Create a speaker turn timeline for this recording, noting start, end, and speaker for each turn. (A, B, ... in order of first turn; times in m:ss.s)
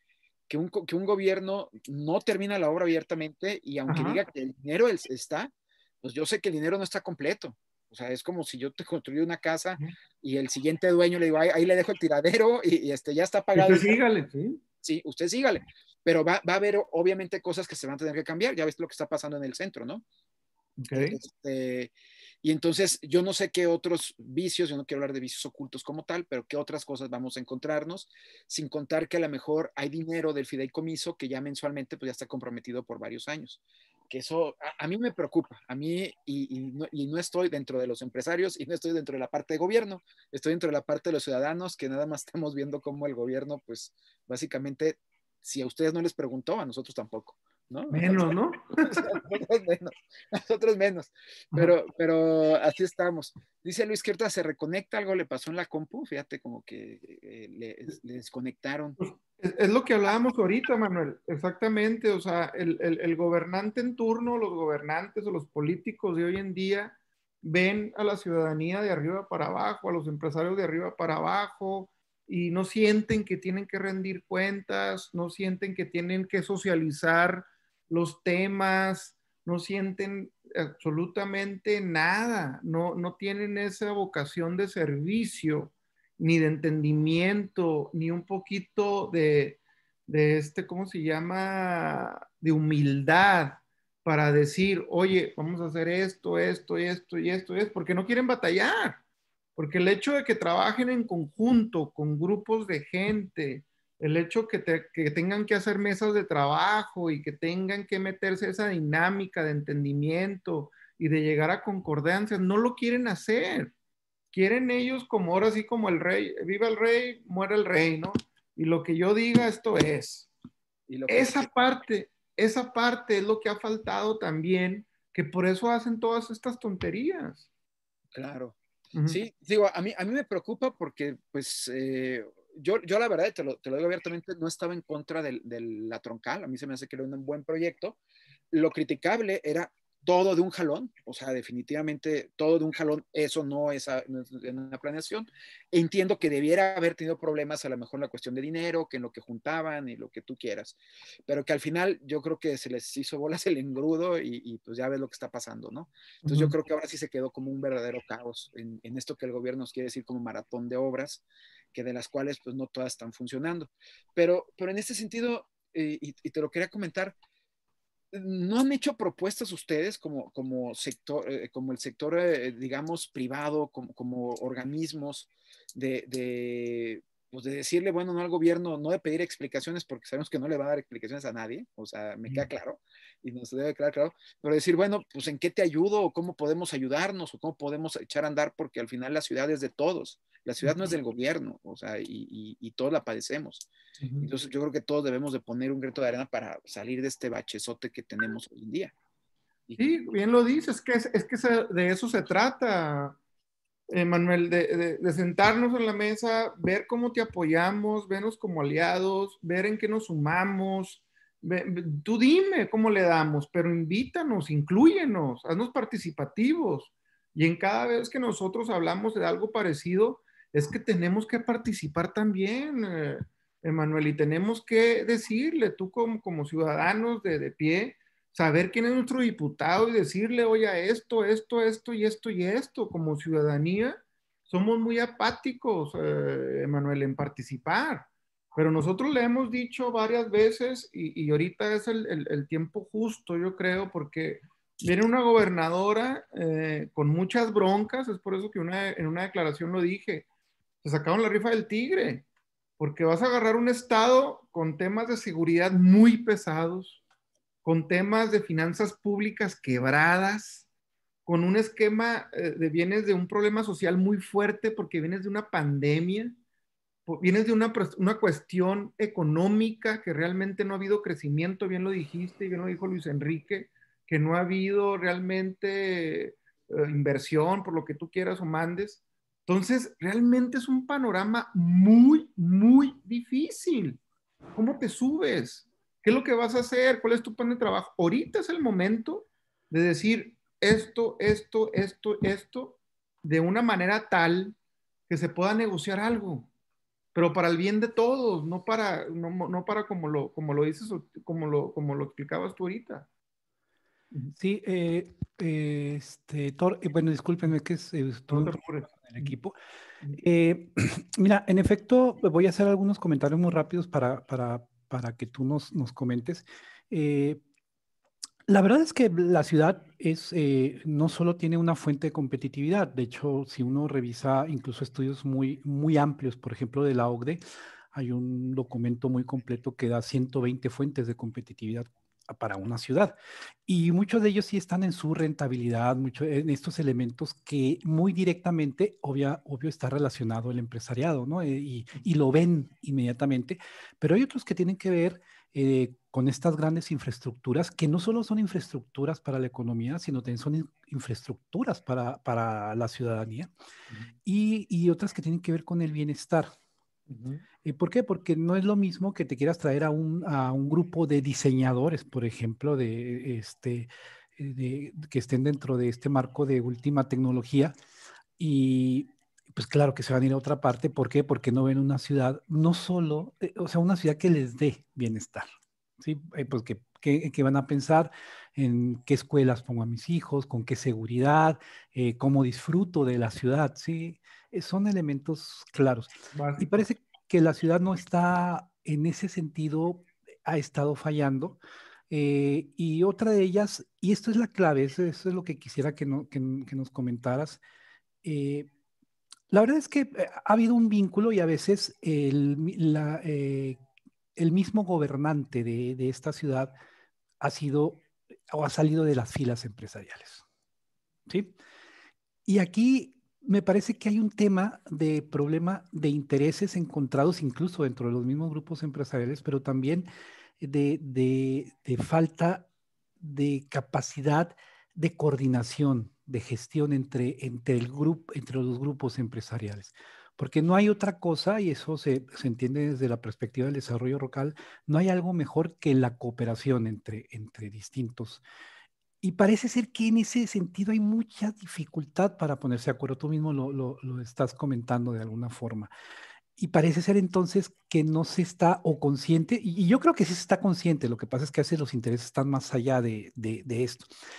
0:00.5-0:13.9 A
0:03.9-0:04.2 B
0:13.5-0:14.6 B
0:14.8-0:20.0 A
0:20.8-0:21.2 B
0:20.9-0:21.9 A
0:22.4-0:59.0 A
0:47.9-0:49.2 B
0:59.0-1:39.0 B
1:39.6-1:53.7 B
1:54.3-2:00.3 B
2:00.9-2:01.5 A
2:01.1-2:07.4 B
2:08.1-2:18.0 A
2:08.9-2:09.2 B
2:18.5-2:47.1 A
2:36.2-2:36.5 B
2:48.1-3:13.7 A
3:10.6-3:10.9 B
3:14.0-3:14.3 B
3:14.2-3:18.9 A
3:19.8-3:23.2 B
3:23.9-4:10.2 B
4:10.8-4:12.2 B
4:12.8-4:17.0 B
4:17.6-4:20.6 B
4:21.2-4:26.4 B
4:27.1-4:44.0 B
4:44.5-4:54.6 B
4:55.1-4:56.5 B
4:57.1-5:03.1 B
5:04.4-5:09.5 C
5:08.3-5:09.3 B
5:10.2-5:17.4 C
5:18.5-5:27.4 C
5:27.9-5:53.5 C
5:54.2-5:56.5 C
5:57.1-5:57.4 B
5:57.6-6:07.7 C
6:08.4-6:15.5 C
6:16.0-6:31.6 C
6:26.3-6:26.8 B
6:32.1-6:37.6 C
6:38.2-6:38.7 C
6:39.5-6:43.8 C
6:44.4-6:46.7 C
6:47.4-6:50.4 C
6:51.3-6:51.5 C
6:52.4-7:00.1 C
7:00.6-7:02.7 C
7:03.2-7:18.4 C
7:19.2-7:25.9 C
7:26.6-7:34.1 C